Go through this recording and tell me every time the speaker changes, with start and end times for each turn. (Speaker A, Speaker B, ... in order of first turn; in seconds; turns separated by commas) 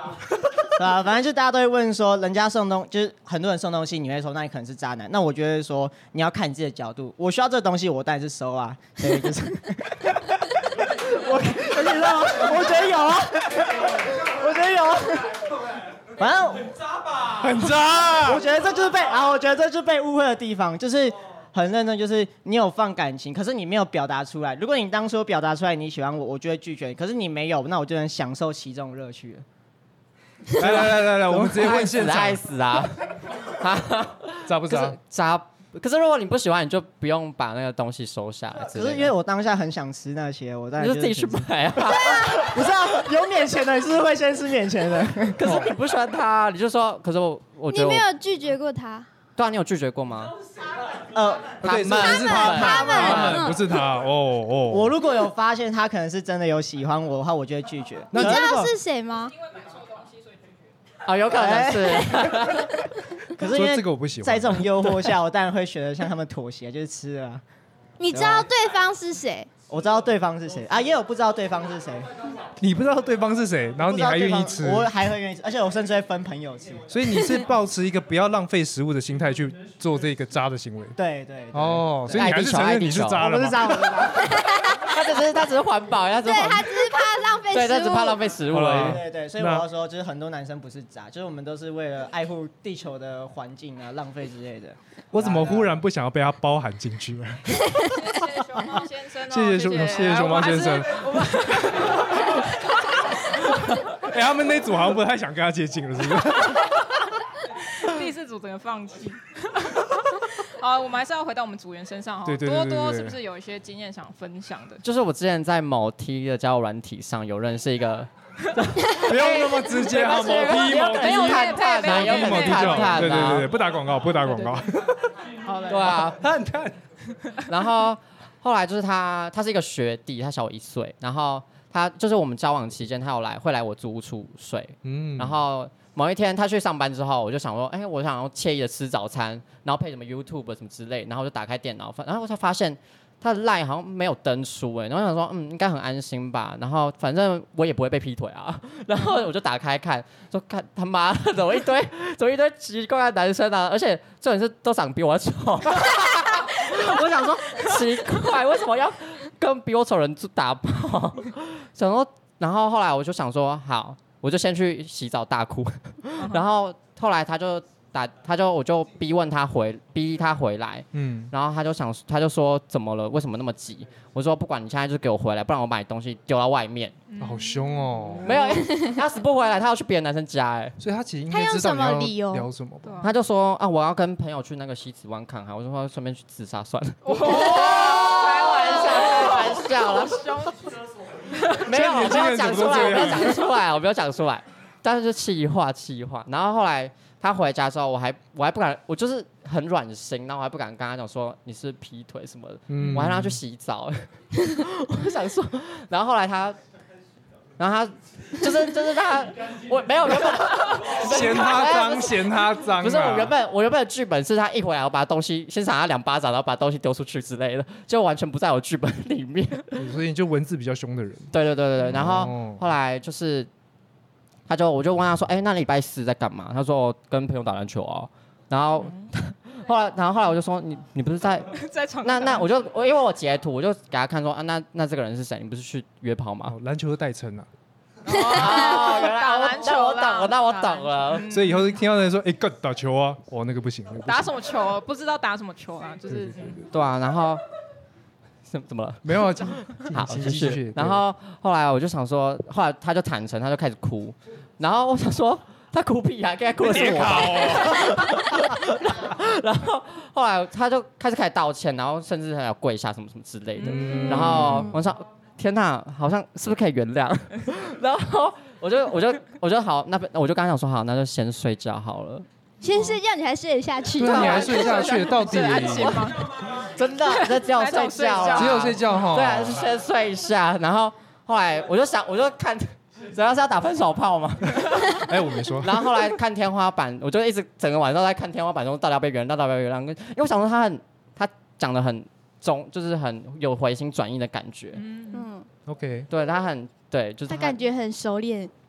Speaker A: 0.8-15.5, Speaker A: 16.2-17.1, Speaker B: 17.4-18.4, Speaker A: 18.2-29.4, Speaker B: 30.6-32.4, Speaker C: 30.6-39.1, Speaker B: 34.5-35.0, Speaker A: 38.6-45.6, Speaker C: 40.8-42.4, Speaker C: 45.4-48.0, Speaker D: 47.7-49.1, Speaker C: 49.4-50.4, Speaker A: 51.1-51.6, Speaker C: 51.6-53.4, Speaker B: 51.6-54.9, Speaker D: 52.0-53.6, Speaker A: 54.7-58.5, Speaker B: 58.1-58.8, Speaker D: 58.1-59.4, Speaker E: 59.4-60.4, Speaker C: 61.0-62.7, Speaker A: 61.3-62.1, Speaker D: 62.2-62.6, Speaker A: 63.3-67.4, Speaker B: 63.5-65.0, Speaker D: 68.0-69.6, Speaker A: 68.1-68.5, Speaker A: 69.6-72.1, Speaker B: 72.6-74.9, Speaker A: 73.8-76.9, Speaker B: 76.9-81.0, Speaker A: 81.0-82.3, Speaker B: 81.5-84.0, Speaker C: 82.1-83.2, Speaker A: 83.2-84.4, Speaker D: 84.4-84.8, Speaker C: 84.7-89.0, Speaker D: 86.2-88.2, Speaker B: 88.5-89.7, Speaker A: 88.8-95.8, Speaker B: 95.1-97.6, Speaker E: 97.9-102.6, Speaker B: 99.3-101.5, Speaker B: 103.9-106.8, Speaker E: 107.6-114.8, Speaker B: 112.2-113.2, Speaker C: 114.8-118.1, Speaker B: 118.8-125.1, Speaker C: 119.0-123.5, Speaker E: 121.0-123.2, Speaker E: 125.4-126.0, Speaker C: 125.7-126.2, Speaker B: 126.0-126.7, Speaker C: 127.5-177.0, Speaker B: 134.8-135.4, Speaker E: 166.2-166.4, Speaker B: 170.9-171.3, Speaker E: 177.1-178.6, Speaker B: 177.2-178.4, Speaker C: 178.2-180.8, Speaker D: 178.6-178.9, Speaker B: 180.8-183.0, Speaker D: 181.3-182.5, Speaker E: 182.8-183.1, Speaker C: 183.0-190.5, Speaker E: 187.0-190.7, Speaker E: 191.4-191.7, Speaker C: 191.6-206.6, Speaker B: 191.7-193.4, Speaker B: 202.7-203.4, Speaker C: 207.6-219.9, Speaker B: 210.9-213.3, Speaker B: 219.8-221.3, Speaker C: 221.3-223.5, Speaker E: 221.8-222.2, Speaker B: 221.9-222.7, Speaker C: 224.5-231.5, Speaker E: 228.8-229.1, Speaker E: 231.5-232.5, Speaker C: 232.0-236.6, Speaker B: 236.5-237.5, Speaker C: 238.1-241.2, Speaker E: 238.1-241.8, Speaker B: 241.3-244.3, Speaker E: 244.1-246.6, Speaker B: 246.1-246.6, Speaker C: 246.7-247.4, Speaker C: 248.5-272.2, Speaker B: 249.0-251.0, Speaker B: 256.6-257.9, Speaker E: 263.6-264.8, Speaker B: 263.6-264.6, Speaker D: 272.6-274.8, Speaker E: 272.7-273.0, Speaker B: 274.0-276.1, Speaker E: 274.0-276.4, Speaker C: 274.1-274.4, Speaker C: 276.6-285.0, Speaker E: 277.0-278.7, Speaker B: 278.3-279.7, Speaker B: 284.6-286.1, Speaker C: 285.6-294.8, Speaker E: 294.7-295.3, Speaker D: 295.1-295.5, Speaker B: 295.7-296.1, Speaker C: 296.1-297.6, Speaker D: 297.3-298.5